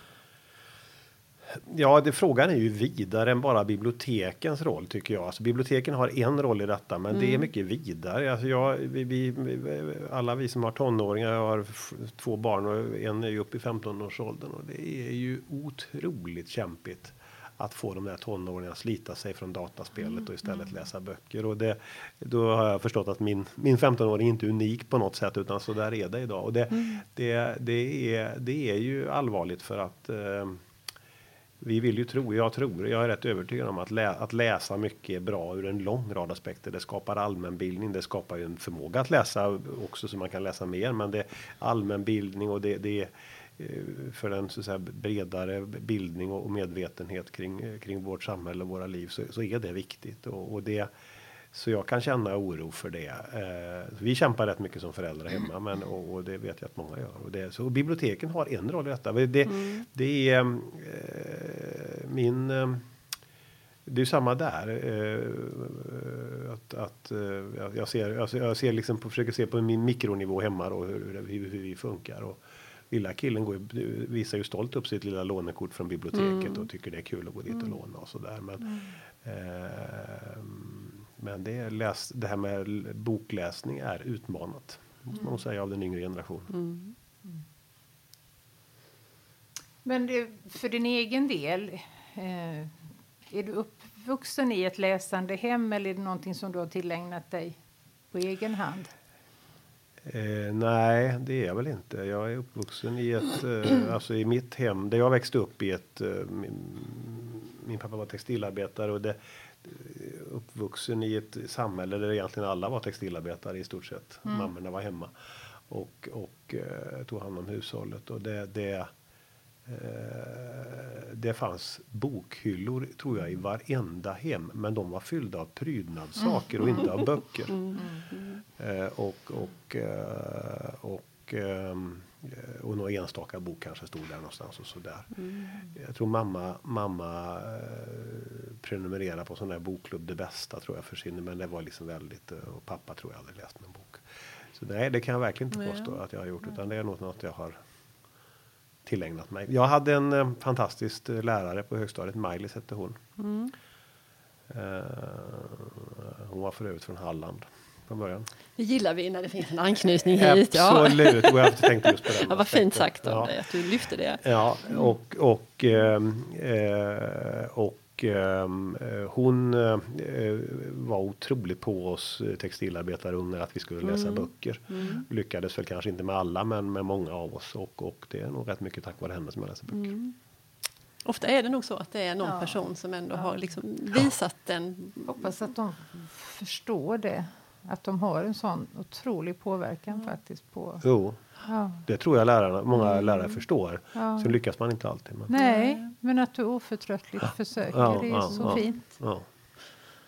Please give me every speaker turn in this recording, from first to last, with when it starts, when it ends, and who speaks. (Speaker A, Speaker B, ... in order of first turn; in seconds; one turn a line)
Speaker A: 1.7-30.6
Speaker B: 7.1-7.5
Speaker B: 26.7-27.0
Speaker A: 31.6-50.9
Speaker A: 51.5-62.8
Speaker B: 59.5-59.8
Speaker A: 63.9-72.4
Speaker A: 72.9-86.5
Speaker B: 76.1-76.7
Speaker B: 86.5-86.9
Speaker C: 89.8-92.7
Speaker C: 93.3-97.6
Speaker C: 98.1-98.9
Speaker A: 100.1-115.1
Speaker A: 115.7-118.9
Speaker A: 119.7-127.8
Speaker B: 127.5-128.4
Speaker A: 128.6-135.1
Speaker B: 135.2-135.5
Speaker A: 135.7-144.0
Speaker A: 144.5-147.6
Speaker B: 145.5-146.0
Speaker A: 148.8-153.0
Speaker B: 153.2-153.5
Speaker A: 154.5-158.2
Speaker B: 158.6-164.2
Speaker A: 160.1-163.3
Speaker A: 164.2-179.9
Speaker B: 173.8-175.0
Speaker B: 179.7-180.1
Speaker B: 181.0-185.3
Speaker C: 182.2-182.6
Speaker C: 185.1-190.8
Speaker A: 190.8-191.2
Speaker C: 191.4-191.8
Speaker A: 191.8-195.3
Speaker C: 193.9-194.4
Speaker C: 195.3-198.9
Speaker B: 195.3-195.8
Speaker A: 197.7-199.2
Speaker B: 198.3-198.6